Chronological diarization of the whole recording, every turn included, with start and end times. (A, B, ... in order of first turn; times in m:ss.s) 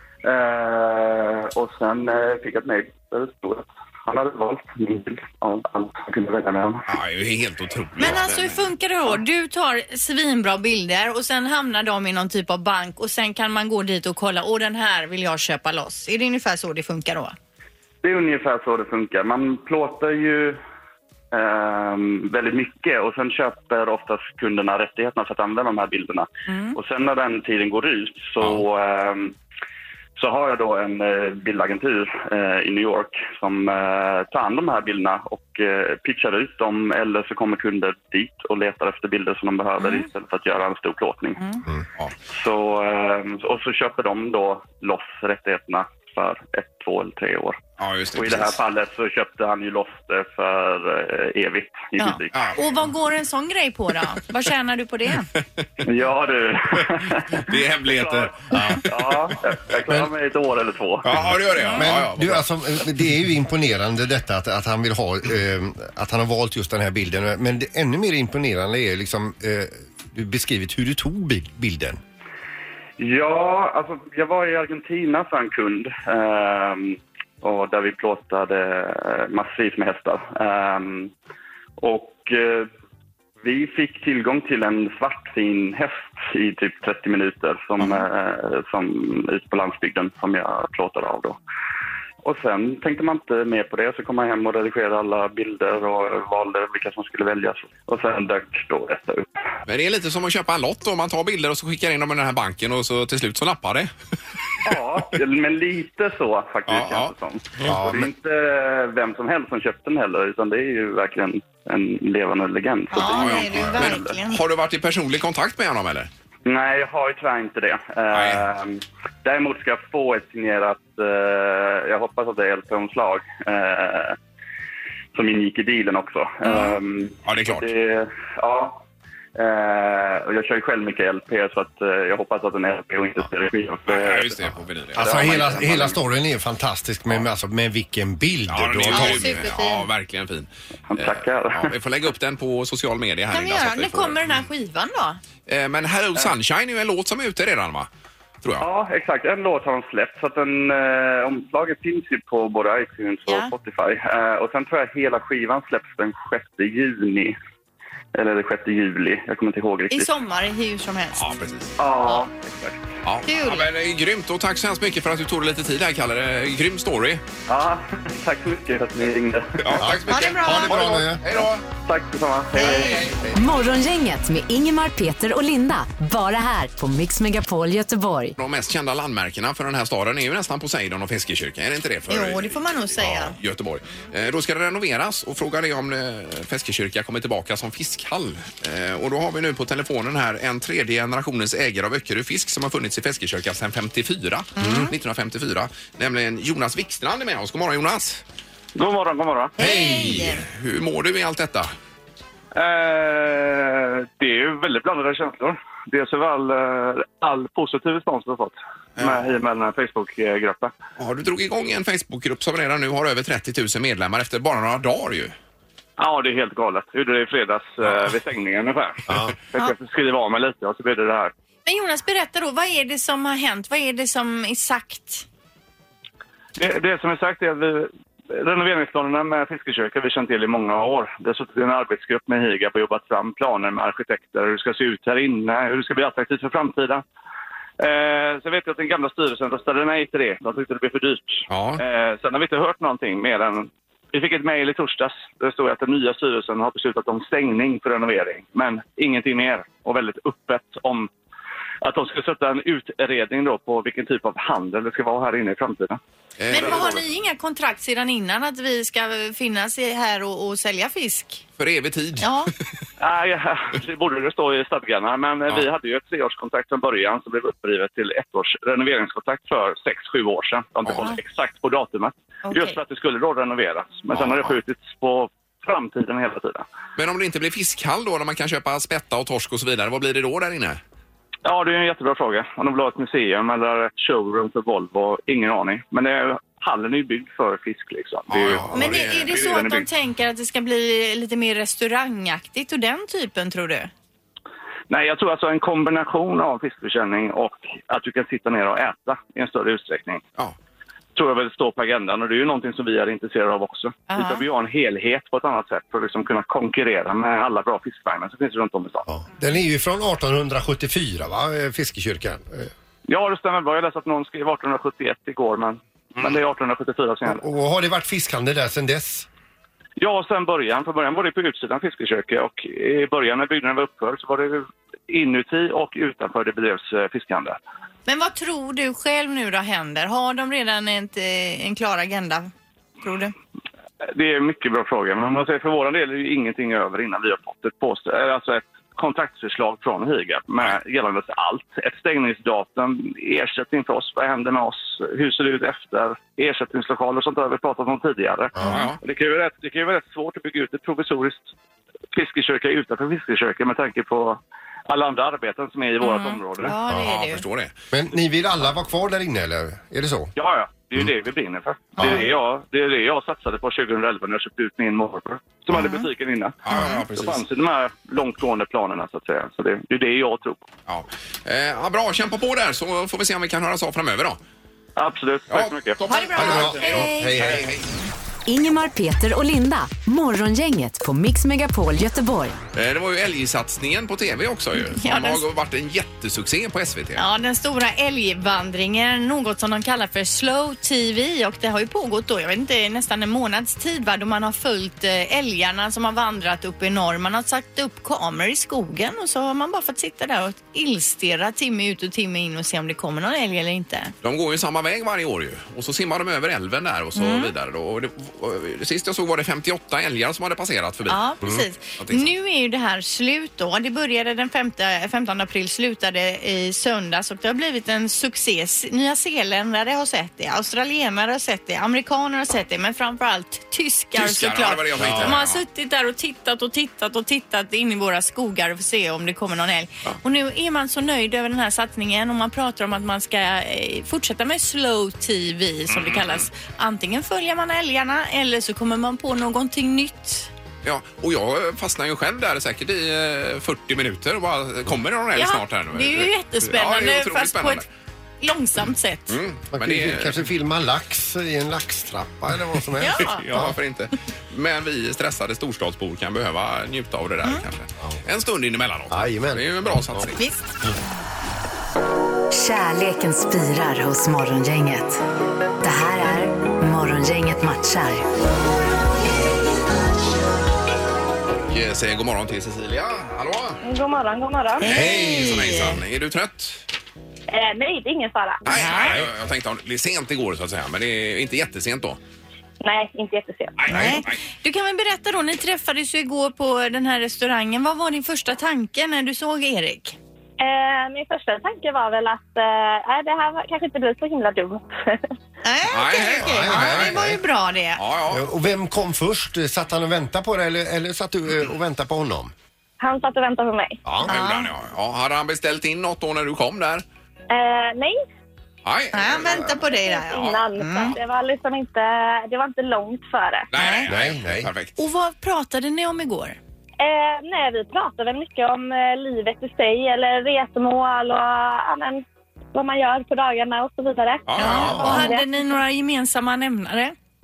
0:00.2-0:06.9 A
0:06.9-0:08.7 B
0:08.0-0:17.4 C
0:18.0-0:20.6 A
0:21.3-0:29.4 A
0:26.5-0:26.8 C
0:30.2-0:41.4 A
0:39.8-0:40.1 C
0:42.3-0:47.6 A
0:47.8-0:48.6 B
0:48.2-0:52.5 A
0:52.0-0:55.3 C
0:55.8-0:58.3 A
0:57.3-0:58.8 B
0:58.5-0:58.8 D
0:58.8-1:01.1 A
1:01.0-1:02.5 B
1:01.2-1:12.0 D
1:01.6-1:01.8 C
1:13.0-1:21.1 A
1:21.8-1:22.7 A
1:23.4-1:31.4 A
1:32.2-1:39.3 A
1:39.7-1:43.9 B
1:44.6-1:54.1 A
1:46.7-1:47.1 B
1:47.6-1:48.1 D
1:52.9-1:54.4 C
1:53.0-1:56.1 B
1:56.4-2:04.2 A
1:58.1-1:58.4 B
2:05.2-2:08.8 A
2:06.4-2:06.8 C
2:07.2-2:07.7 B
2:09.4-2:14.4 A
2:13.9-2:15.8 B
2:15.0-2:16.0 A
2:15.0-2:19.5 D
2:18.5-2:24.2 B
2:18.9-2:19.9 C
2:20.9-2:21.7 A
2:23.3-2:25.2 C
2:25.5-2:27.9 B
2:28.6-2:37.4 A
2:33.3-2:33.5 C
2:38.2-2:40.1 A
2:39.9-2:41.3 C
2:41.2-2:41.8 B
2:41.8-2:42.9 A
2:43.0-2:47.2 B
2:43.3-2:43.7 C
2:47.5-2:49.8 A
2:49.6-2:51.6 B
2:49.8-2:51.3 D
2:50.1-2:51.0 C
2:51.8-2:53.1 A
2:52.6-2:53.2 B
2:52.6-2:53.0 C
2:53.3-2:58.4 E
2:58.4-3:18.2 B
3:02.1-3:03.4 C
3:14.6-3:14.9 C
3:18.8-3:19.6 F
3:19.6-3:20.4 C
3:19.6-3:21.7 B
3:22.6-3:30.7 F
3:29.0-3:29.2 B
3:31.0-3:35.4 B
3:36.0-3:41.3 F
3:39.1-3:39.3 D
3:41.7-3:45.3 C
3:46.6-3:57.0 F
3:57.8-4:11.1 F
4:01.5-4:01.8 B
4:11.8-4:16.0 F
4:16.4-4:17.0 B
4:16.5-4:21.4 C
4:16.5-4:16.9 F
4:21.6-4:22.6 B
4:22.2-4:22.5 C
4:23.0-4:36.6 F
4:32.4-4:32.8 C
4:34.1-4:34.5 B
4:37.0-4:40.8 B
4:41.4-4:49.9 F
4:48.3-4:49.4 B
4:48.7-4:53.9 C
4:54.9-5:00.2 F
5:01.2-5:09.1 F
5:04.1-5:04.4 C
5:09.1-5:12.7 D
5:13.1-5:17.4 F
5:17.3-5:19.3 D
5:20.0-5:27.6 F
5:28.1-5:32.5 C
5:33.0-5:33.3 C
5:34.1-5:51.5 F
5:48.6-5:49.0 B
5:52.1-5:56.8 F
5:56.0-5:57.4 C
5:56.9-5:57.7 B
5:57.9-6:00.3 D
6:00.4-6:10.7 F
6:02.0-6:02.2 D
6:05.7-6:06.1 C
6:06.6-6:07.4 B
6:10.9-6:14.4 B
6:15.0-6:16.1 F
6:15.5-6:17.9 B
6:16.1-6:17.4 C
6:16.4-6:17.7 D
6:18.5-6:22.6 E
6:22.7-6:27.2 B
6:24.9-6:25.4 C
6:27.2-6:44.1 C
6:44.2-6:51.2 B
6:47.2-6:47.5 C
6:51.1-7:20.5 C
6:52.0-6:52.3 B
7:04.2-7:05.6 B
7:05.0-7:05.4 D
7:15.9-7:16.5 B
7:20.8-7:27.8 B
7:25.4-7:27.8 C
7:28.4-7:29.4 C
7:29.3-7:30.5 B
7:29.7-7:33.8 D
7:33.0-7:33.4 C
7:33.2-7:40.4 B
7:39.1-7:40.3 D
7:40.4-7:40.6 C
7:42.5-7:45.2 E
7:45.8-7:48.2 E
7:51.6-7:53.8 B
7:53.8-7:55.0 G
7:54.8-7:56.0 C
7:54.8-7:56.8 B
7:54.9-7:55.6 D
7:57.5-7:58.6 G
7:58.6-8:02.2 B
7:58.7-7:59.2 C
8:02.8-8:03.8 G
8:03.8-8:04.4 B
8:03.9-8:10.2 C
8:10.6-8:15.3 G
8:15.6-8:18.0 C
8:15.9-8:17.3 B
8:16.4-8:17.4 D
8:18.0-8:18.5 B
8:18.3-8:22.5 D
8:23.0-8:24.0 G
8:24.0-8:24.3 D
8:24.2-8:24.7 C
8:24.3-8:27.0 B
8:27.5-8:28.2 G
8:28.8-8:30.7 B
8:29.1-8:31.2 C
8:29.8-8:33.7 G
8:33.7-8:35.0 B
8:33.7-8:34.1 C
8:34.1-8:34.7 D
8:35.0-8:36.6 C
8:37.0-8:42.2 G
8:42.7-8:45.5 G
8:44.5-8:45.3 B
8:44.6-8:47.2 C
8:44.8-8:45.3 D